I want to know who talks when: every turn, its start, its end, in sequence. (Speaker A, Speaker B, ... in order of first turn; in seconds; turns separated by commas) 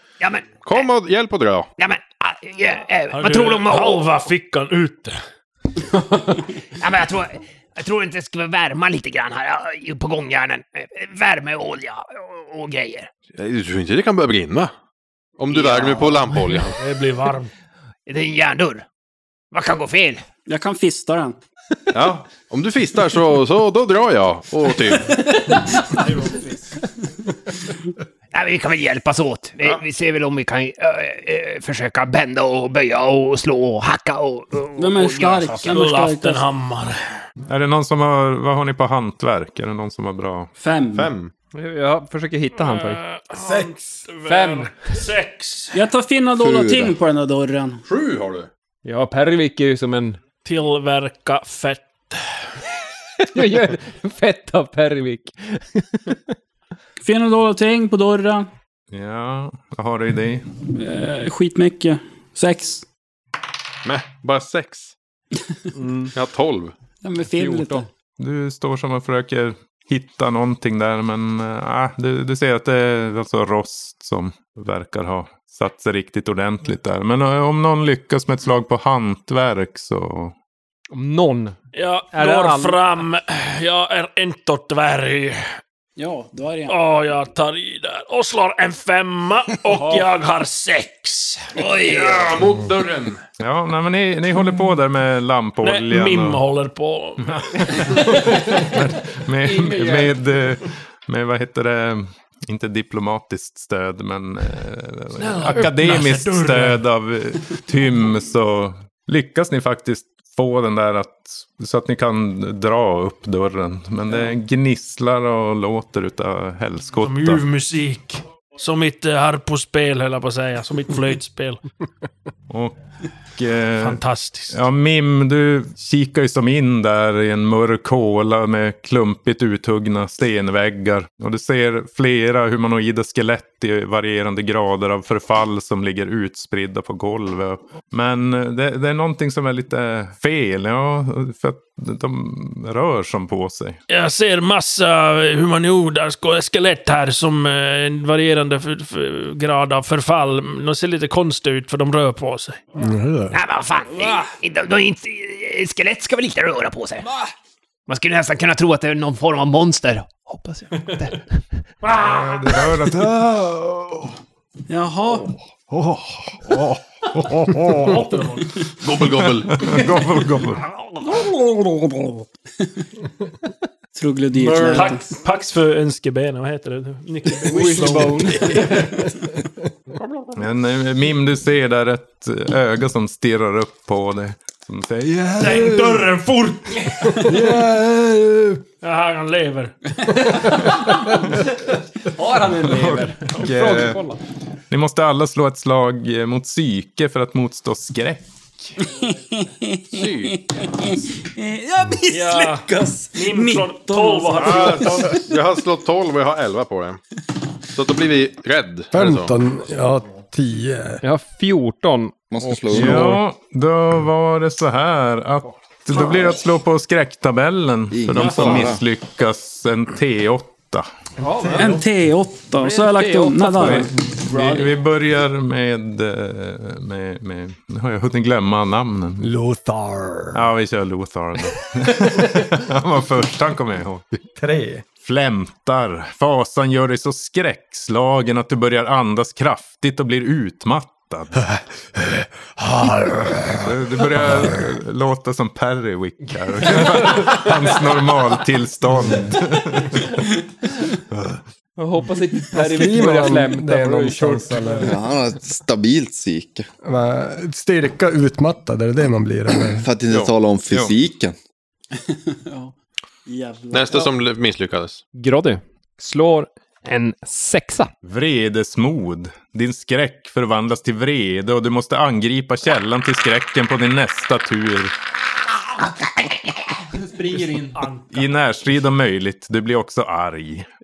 Speaker A: 0.2-0.9, Speaker B: 0.6-1.7, Speaker A: 1.8-4.2, Speaker C: 3.1-5.2, Speaker A: 6.8-13.1, Speaker B: 13.4-14.7, Speaker B: 15.4-16.8, Speaker A: 15.5-16.6, Speaker C: 16.8-17.5, Speaker A: 18.1-18.9, Speaker A: 19.5-20.2, Speaker D: 20.5-21.4, Speaker B: 21.9-25.1, Speaker E: 26.0-26.3, Speaker A: 28.3-35.7, Speaker D: 34.8-36.5, Speaker C: 35.1-37.0, Speaker F: 37.5-40.5, Speaker D: 40.6-41.1, Speaker B: 40.9-41.3, Speaker E: 41.5-43.0, Speaker C: 42.5-45.8, Speaker G: 43.4-43.8, Speaker E: 44.2-44.9, Speaker D: 45.7-47.8, Speaker H: 46.4-47.0, Speaker B: 47.9-48.5, Speaker E: 48.9-50.2, Speaker C: 50.5-52.2, Speaker E: 53.2-56.2, Speaker D: 57.0-58.5, Speaker F: 58.9-60.5, Speaker D: 60.7-62.8, Speaker B: 63.8-64.9, Speaker E: 65.8-66.1, Speaker B: 66.1-66.7, Speaker D: 67.0-67.9, Speaker E: 67.4-67.8, Speaker F: 68.2-80.3, Speaker E: 80.9-81.6, Speaker C: 81.7-85.4, Speaker E: 82.1-82.8, Speaker D: 86.0-86.8, Speaker C: 86.7-91.5, Speaker E: 89.8-90.0, Speaker A: 91.6-92.3, Speaker B: 91.6-93.2, Speaker F: 93.4-96.4, Speaker C: 95.6-98.1, Speaker F: 97.2-117.4, Speaker E: 98.2-98.7, Speaker E: 99.4-100.2, Speaker C: 105.2-106.8, Speaker C: 117.0-121.6, Speaker F: 122.5-122.8, Speaker F: 123.4-143.8, Speaker C: 123.8-124.6, Speaker C: 143.9-152.6, Speaker G: 152.8-153.4, Speaker A: 153.3-157.1, Speaker C: 153.9-154.3, Speaker A: 157.9-161.1, Speaker C: 160.8-161.1, Speaker C: 161.8-162.7, Speaker F: 162.0-164.1, Speaker D: 164.7-165.3, Speaker G: 165.7-166.1, Speaker F: 166.5-167.9, Speaker C: 167.7-168.7, Speaker B: 168.8-169.8, Speaker F: 169.1-170.7, Speaker D: 173.9-175.0, Speaker C: 174.6-178.6, Speaker E: 177.5-178.9, Speaker G: 177.5-179.1, Speaker B: 180.0-180.4, Speaker F: 180.3-185.8, Speaker C: 185.3-187.4, Speaker G: 185.7-186.0, Speaker G: 187.1-188.6, Speaker C: 188.8-190.4, Speaker G: 190.7-190.9, Speaker E: 192.1-194.2, Speaker F: 192.7-194.0, Speaker F: 194.7-198.8, Speaker D: 198.8-205.1, Speaker B: 199.9-200.4, Speaker C: 202.1-205.3, Speaker B: 204.4-207.0, Speaker B: 207.7-209.3, Speaker G: 208.9-211.0, Speaker E: 211.0-213.2, Speaker H: 212.3-213.2, Speaker F: 212.7-220.9, Speaker H: 217.9-218.8, Speaker C: 218.1-218.7, Speaker E: 221.2-221.7, Speaker G: 221.4-221.9, Speaker D: 221.6-223.9, Speaker E: 222.6-224.7, Speaker F: 223.6-229.3, Speaker G: 229.2-230.5, Speaker F: 230.3-234.1, Speaker G: 231.6-231.9, Speaker G: 234.4-234.9, Speaker F: 235.0-241.5, Speaker G: 242.6-244.7, Speaker F: 243.6-250.2, Speaker G: 249.0-249.3, Speaker E: 251.8-254.8, Speaker G: 252.5-255.0, Speaker H: 254.8-256.7, Speaker G: 256.8-259.9, Speaker H: 259.7-261.4, Speaker D: 261.9-262.7, Speaker D: 263.3-264.1, Speaker B: 263.7-265.0, Speaker E: 265.1-267.9, Speaker F: 268.0-274.9, Speaker E: 277.0-277.8, Speaker C: 277.1-278.4, Speaker F: 278.1-280.7